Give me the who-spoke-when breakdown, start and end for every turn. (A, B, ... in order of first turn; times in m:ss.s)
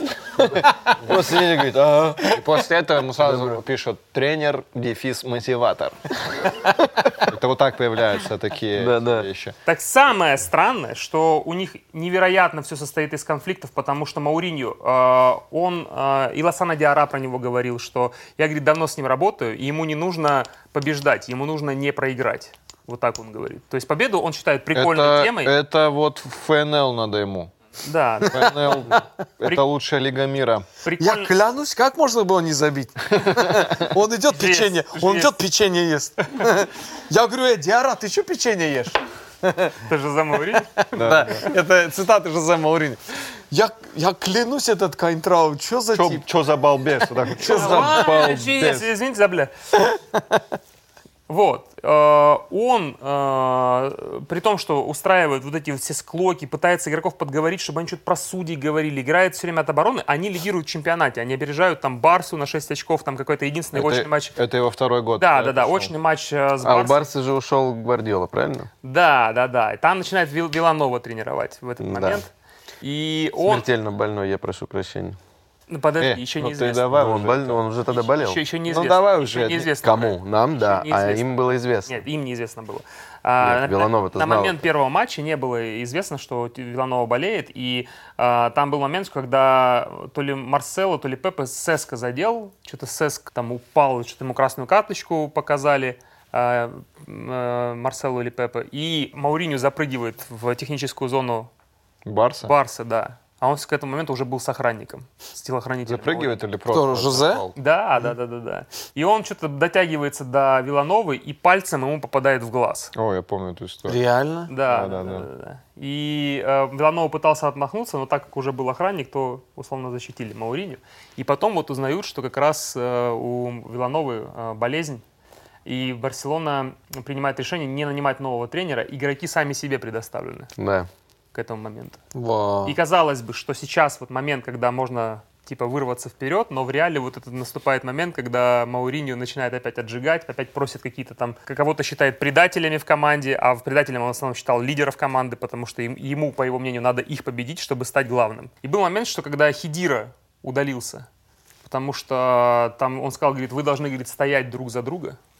0:00.4-0:00.8 A
0:00.4-0:02.4 B
0:02.3-0:06.6 C
0:03.2-0:03.6 B
0:07.2-0:09.5 C
0:08.7-0:09.3 B
0:09.6-0:25.5 D
0:24.7-0:27.5 C
0:27.8-0:28.5 D
0:28.3-0:30.6 C
0:28.3-0:29.0 A
0:30.8-0:31.3 D
0:31.0-0:39.8 A
0:34.3-0:35.3 D
0:39.8-0:40.7 D
0:40.6-0:43.0 A
0:40.9-0:41.5 C
0:43.5-0:46.2 A
0:45.9-0:48.2 C
0:47.0-0:48.3 A
0:47.5-0:49.5 D
0:47.5-0:48.8 B
0:51.3-1:04.4 D
1:03.7-1:05.9 C
1:05.2-1:07.0 D
1:06.6-1:08.7 B
1:08.8-1:12.3 D
1:11.8-1:12.2 B
1:12.8-1:13.6 D
1:13.4-1:15.2 B
1:15.7-1:17.2 D
1:16.0-1:17.6 C
1:16.9-1:18.4 B
1:17.9-1:41.5 D
1:18.7-1:19.7 C
1:19.8-1:22.0 B
1:23.4-1:24.6 B
1:42.0-1:42.5 C
1:42.4-1:46.4 D
1:45.8-1:47.6 C
1:46.7-1:47.4 A
1:47.6-1:52.9 D
1:52.9-1:54.0 C
1:53.9-1:54.5 A
1:54.5-2:05.0 D
1:54.7-1:55.3 C
2:05.6-2:10.5 D
2:10.6-2:10.9 B
2:11.3-2:12.0 D
2:12.6-2:31.1 D
2:31.6-2:35.2 D